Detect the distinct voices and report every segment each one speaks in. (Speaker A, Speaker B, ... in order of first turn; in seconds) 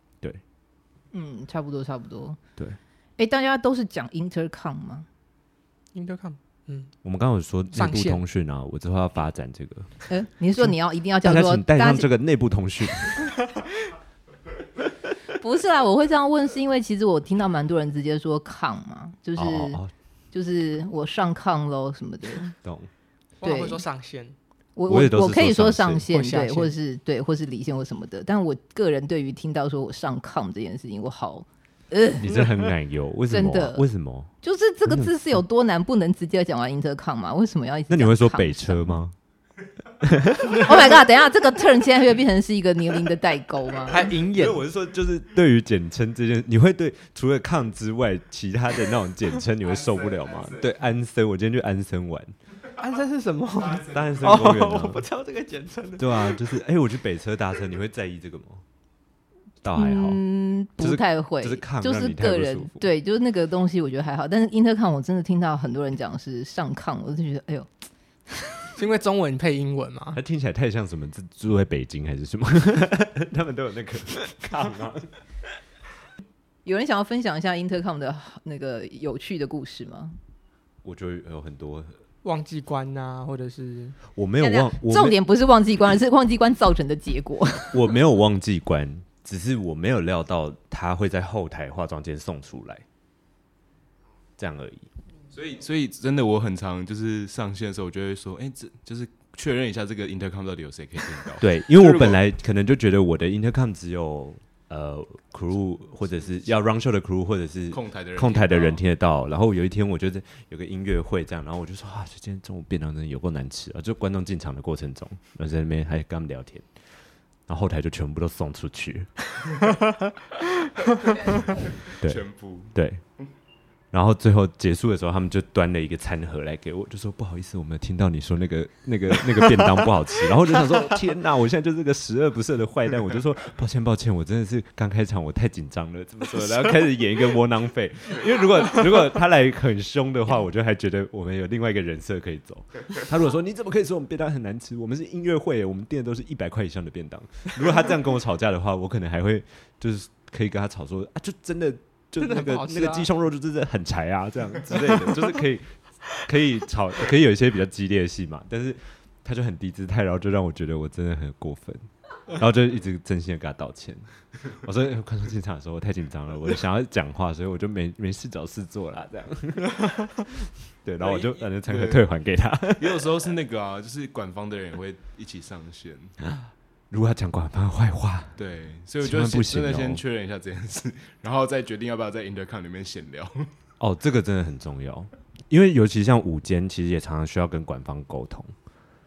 Speaker A: 1.1-2.4, 3.2-5.1, 10.1-12.1, 15.3-19.8, 20.3-22.5, 23.4-23.8, 24.8-32.4, 33.3-33.8, 34.4-39.0, 40.4-44.0, 59.8-67.7, 68.3-68.6, 76.7-80.2, 84.4-87.8
Speaker B: 5.9-6.9, 7.7-8.2, 23.4-24.4, 26.1-26.7, 43.9-44.6, 52.8-56.4, 68.8-70.2, 82.2-84.0, 152.2-153.1
Speaker C: 7.0-9.9, 10.6-13.3, 19.4-19.9, 22.6-22.9, 24.9-26.1, 32.2-34.3, 34.9-35.1, 37.9-39.1, 40.1-40.6, 44.2-52.3, 53.9-55.1, 56.0-58.6, 59.6-60.2, 60.8-62.8, 70.2-75.2, 80.8-82.0, 84.2-85.2, 87.7-92.8, 94.4-94.9, 101.4-116.7, 117.5-119.1, 122.7-123.0, 123.9-173.1, 176.4-178.4, 179.0-180.0, 183.8-188.5
Speaker D: 95.3-102.2, 107.7-108.8, 121.0-122.8, 171.0-172.0, 172.8-176.2, 178.4-183.5